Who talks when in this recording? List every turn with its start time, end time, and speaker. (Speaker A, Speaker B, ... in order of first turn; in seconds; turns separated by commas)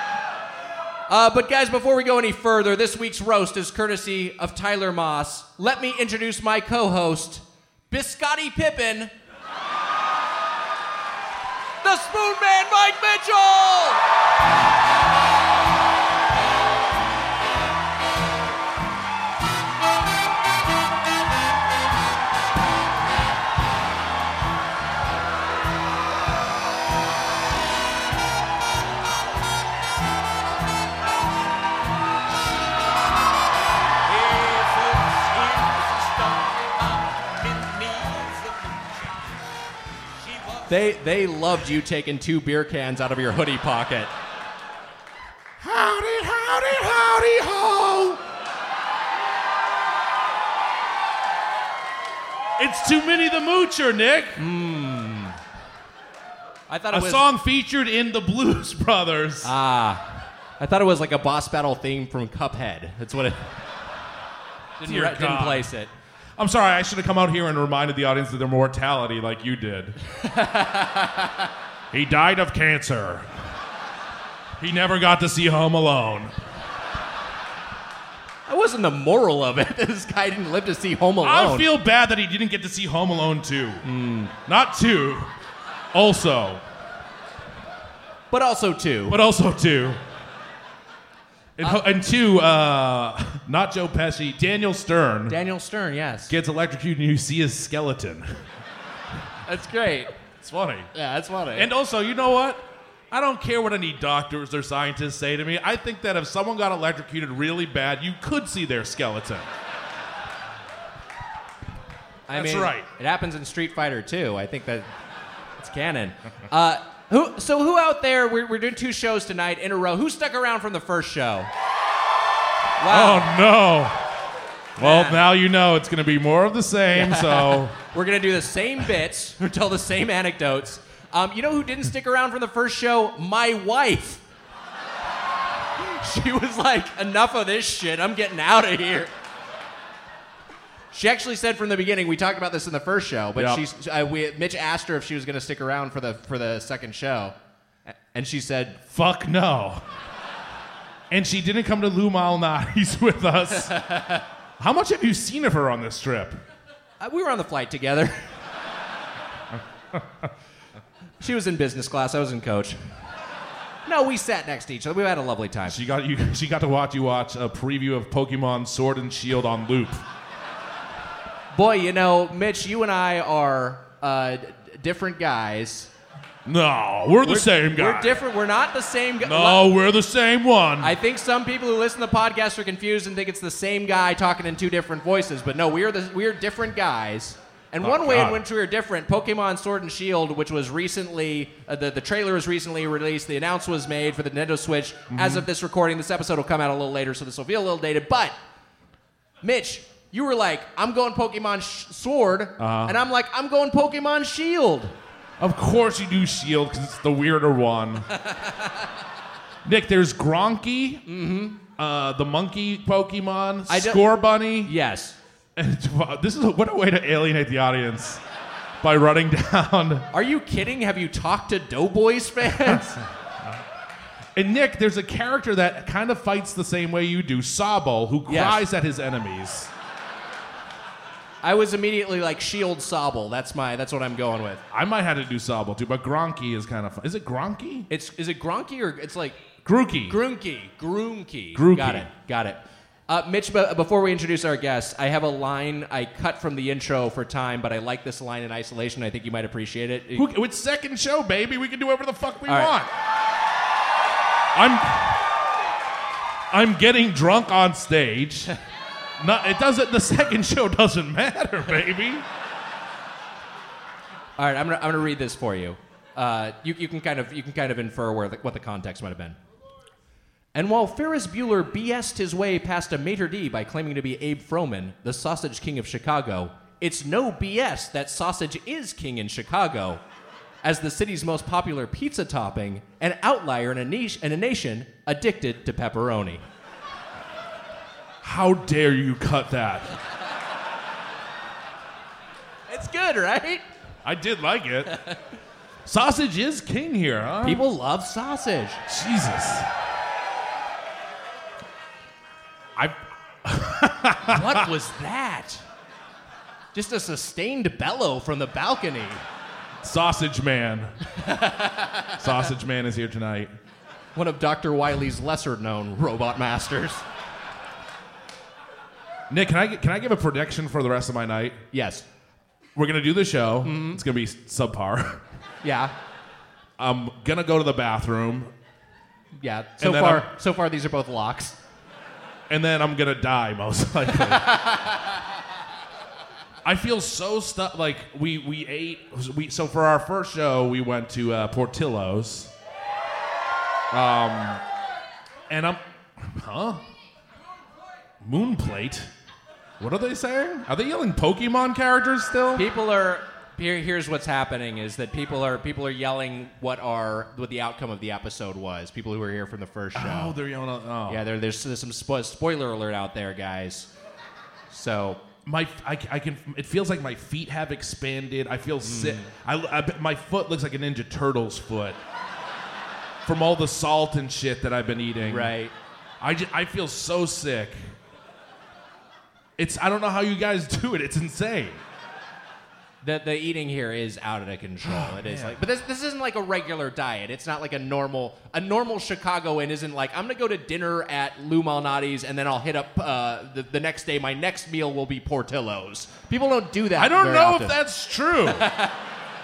Speaker A: 1.1-9.1, Speaker A: 11.8-14.0, Speaker A: 34.2-36.4, Speaker A: 37.5-38.4, Speaker A: 40.6-44.1, Speaker B: 45.6-48.2, Speaker B: 52.6-54.4, Speaker A: 54.4-55.4, Speaker A: 56.7-57.3, Speaker B: 56.9-59.5, Speaker A: 59.4-60.0, Speaker A: 60.6-63.5, Speaker A: 64.8-65.9, Speaker B: 64.8-65.7, Speaker B: 66.4-70.0, Speaker A: 70.2-71.5, Speaker B: 71.9-73.3, Speaker B: 74.6-76.3, Speaker A: 78.5-81.7, Speaker B: 81.2-83.8, Speaker A: 83.8-84.3, Speaker B: 84.4-85.3, Speaker B: 85.9-86.6, Speaker A: 88.3-89.2, Speaker B: 89.1-90.0, Speaker B: 91.6-95.3, Speaker A: 95.3-96.3, Speaker B: 96.3-98.3, Speaker A: 99.5-100.1, Speaker B: 100.4-100.9, Speaker A: 100.9-101.7, Speaker B: 101.5-109.5, Speaker A: 112.3-114.9, Speaker B: 112.3-112.9, Speaker A: 115.6-121.5, Speaker A: 122.8-123.3, Speaker B: 122.9-124.0, Speaker A: 124.8-125.3, Speaker B: 124.8-127.7, Speaker A: 126.9-134.2, Speaker A: 135.8-139.1, Speaker A: 140.9-147.3, Speaker B: 143.4-143.6, Speaker A: 147.9-148.8, Speaker B: 148.9-149.8, Speaker B: 151.1-154.1, Speaker A: 153.5-154.2, Speaker B: 154.6-156.4, Speaker A: 157.0-158.2, Speaker B: 159.9-160.3, Speaker A: 161.2-162.8, Speaker A: 163.9-165.8, Speaker B: 165.7-170.0, Speaker A: 171.5-175.9, Speaker B: 176.5-178.2, Speaker A: 177.2-179.7, Speaker B: 179.2-180.9, Speaker A: 180.8-198.4, Speaker B: 187.8-188.4, Speaker B: 195.1-195.5, Speaker A: 199.4-204.9, Speaker B: 202.6-203.0, Speaker B: 205.4-208.1, Speaker A: 208.2-208.5, Speaker B: 209.7-211.0, Speaker A: 211.1-211.6, Speaker B: 211.8-214.7, Speaker A: 213.7-215.2, Speaker B: 215.6-218.2, Speaker B: 218.8-220.1, Speaker A: 220.1-223.0, Speaker B: 224.4-229.7, Speaker A: 228.3-228.7, Speaker A: 231.4-234.6, Speaker B: 234.7-237.9, Speaker A: 237.9-239.4, Speaker B: 239.7-240.2, Speaker A: 240.1-250.3, Speaker B: 241.5-242.1, Speaker B: 250.2-252.9, Speaker A: 252.5-252.7, Speaker B: 254.5-255.2, Speaker B: 256.5-258.5, Speaker B: 259.2-262.2, Speaker A: 264.4-269.4, Speaker A: 270.5-280.0, Speaker A: 280.6-286.4, Speaker B: 288.2-289.9, Speaker A: 292.7-293.6, Speaker B: 294.1-294.9, Speaker B: 295.9-297.6, Speaker A: 297.4-298.8, Speaker B: 298.9-299.7, Speaker B: 302.8-304.6, Speaker A: 304.3-305.6, Speaker A: 306.7-309.2, Speaker B: 309.8-310.9, Speaker A: 311.2-312.2, Speaker B: 312.2-313.5, Speaker A: 314.1-317.0, Speaker B: 319.3-321.6, Speaker A: 321.7-322.1, Speaker B: 322.8-325.2, Speaker A: 323.6-324.0, Speaker A: 325.6-325.9, Speaker B: 326.8-328.5, Speaker A: 329.4-331.6, Speaker B: 329.8-330.3, Speaker B: 332.5-334.6, Speaker A: 334.1-335.0, Speaker B: 336.6-342.5, Speaker B: 343.9-344.6, Speaker B: 345.5-346.8, Speaker B: 348.2-349.1, Speaker B: 349.8-352.7, Speaker A: 352.6-360.4, Speaker B: 359.9-361.2, Speaker A: 361.1-363.9, Speaker A: 364.7-365.2, Speaker B: 365.5-372.0, Speaker A: 368.8-369.3, Speaker B: 373.3-375.5, Speaker A: 375.2-375.7, Speaker B: 376.2-377.8, Speaker B: 379.6-381.8, Speaker A: 383.0-397.8, Speaker B: 384.9-385.6, Speaker B: 397.0-398.6, Speaker A: 398.4-399.0